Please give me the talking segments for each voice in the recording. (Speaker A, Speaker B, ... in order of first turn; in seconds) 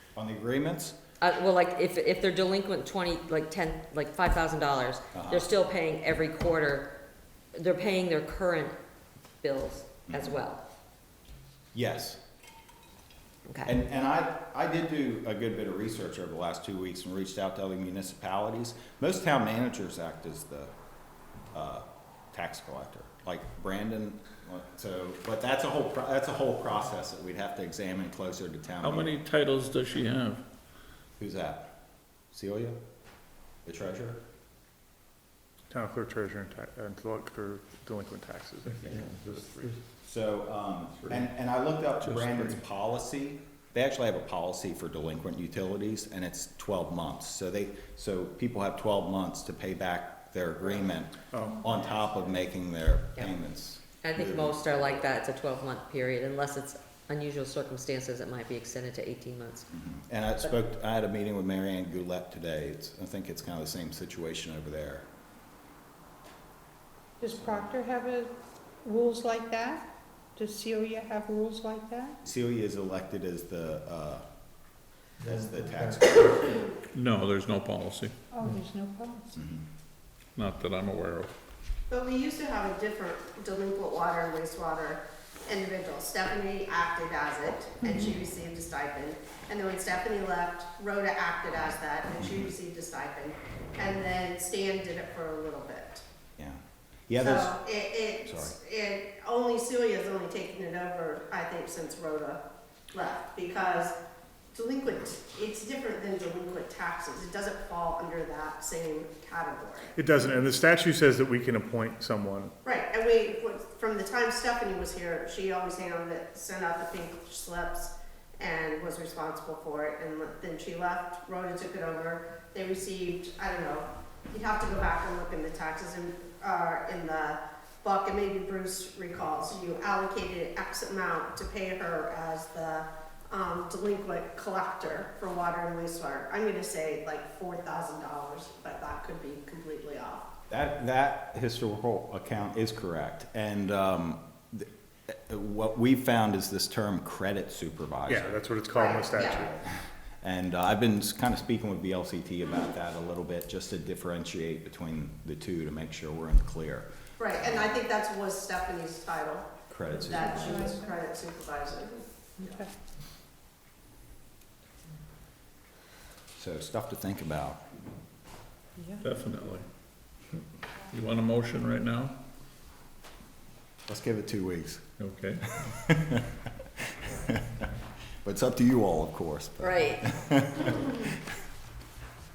Speaker A: 0.1-1.0, 5.1-5.5, 10.1-10.4, 11.7-12.2, 13.6-20.7, 21.5-29.2, 31.2-31.7, 32.3-32.8, 33.6-34.2, 40.0-55.0, 59.7-65.1, 67.3-67.7, 72.2-74.2, 75.2-76.7, 79.3-79.7, 92.2-92.5, 96.4-97.6, 98.2-98.5, 140.5-148.4, 150.2-157.7, 159.7-160.7, 166.3-167.6, 173.8-174.8, 175.6-176.3, 177.0-177.7, 178.2-181.1
Speaker B: 1.2-6.9, 7.5-8.7, 9.4-10.6, 13.4-13.7, 54.0-59.7, 179.6-180.0
Speaker C: 28.8-30.4, 38.7-39.7, 42.0-42.6, 76.9-78.1, 80.3-81.3, 169.0-169.6, 170.9-172.2, 175.0-175.7
Speaker D: 35.7-39.8, 51.3-51.6, 109.9-112.5, 148.1-149.6
Speaker E: 67.2-68.3, 68.8-72.2, 78.3-79.4, 160.1-160.9, 162.4-162.7, 168.8-169.1
Speaker F: 81.9-96.0, 97.2-102.4, 102.9-103.9, 104.5-109.9, 112.6-140.3, 148.7-149.4, 157.2-162.6